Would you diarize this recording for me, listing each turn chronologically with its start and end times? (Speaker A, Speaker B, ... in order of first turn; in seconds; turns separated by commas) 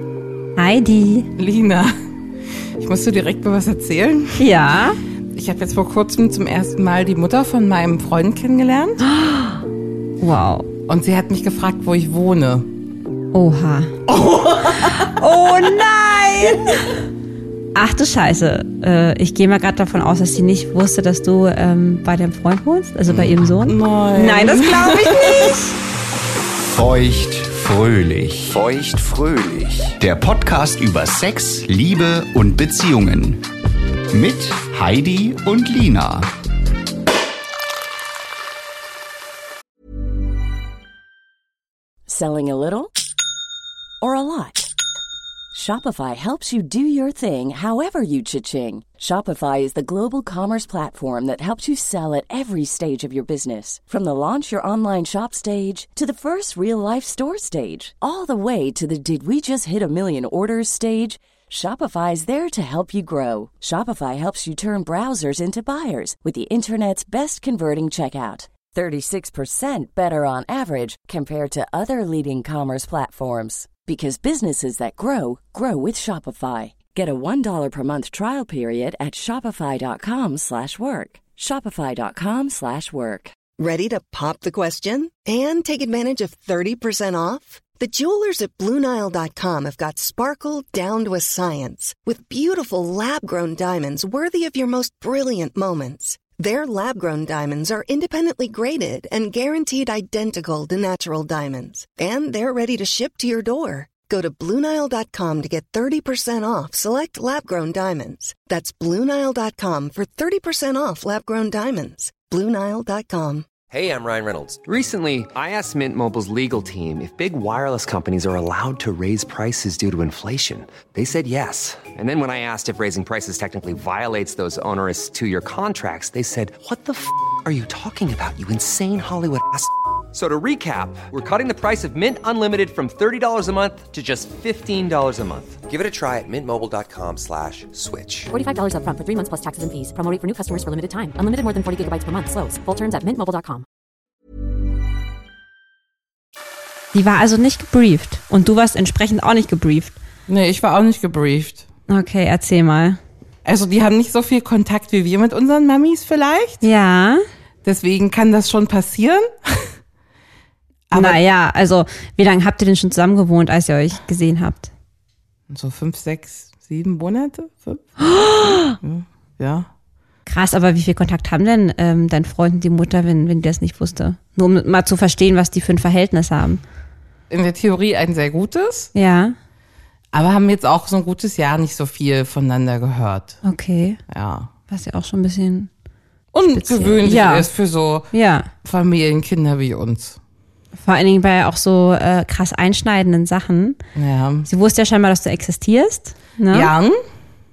Speaker A: 0.6-1.3, Speaker B: 1.4-1.9, Speaker B: 2.8-4.5, Speaker A: 4.4-5.0, Speaker B: 5.3-9.0, Speaker A: 9.0-9.6, Speaker A: 10.2-10.7, Speaker B: 10.9-12.7, Speaker A: 13.3-14.0, Speaker B: 14.1-15.1, Speaker A: 14.8-16.9, Speaker A: 17.7-25.8, Speaker B: 23.1-25.6, Speaker C: 26.7-33.4, Speaker C: 34.1-36.3, Speaker D: 42.0-42.9, Speaker D: 44.0-44.7, Speaker D: 45.5-83.3, Speaker E: 83.6-113.5, Speaker F: 113.7-138.3, Speaker G: 138.3-143.6, Speaker A: 146.9-149.9, Speaker B: 150.3-151.6, Speaker A: 151.9-153.0, Speaker B: 153.4-156.6, Speaker A: 156.6-157.2, Speaker B: 157.6-159.7, Speaker B: 160.9-161.2, Speaker A: 160.9-164.7, Speaker B: 165.5-169.7, Speaker A: 168.2-168.7, Speaker A: 170.2-176.6, Speaker B: 177.3-178.9, Speaker A: 178.9-179.3, Speaker B: 180.1-183.4, Speaker A: 183.4-184.0, Speaker B: 184.1-184.5, Speaker A: 184.7-185.7, Speaker B: 186.3-188.1, Speaker A: 186.5-187.5, Speaker A: 188.1-188.5, Speaker B: 188.6-190.2, Speaker A: 190.8-193.8, Speaker B: 193.9-194.5, Speaker A: 194.5-196.7, Speaker B: 196.5-197.0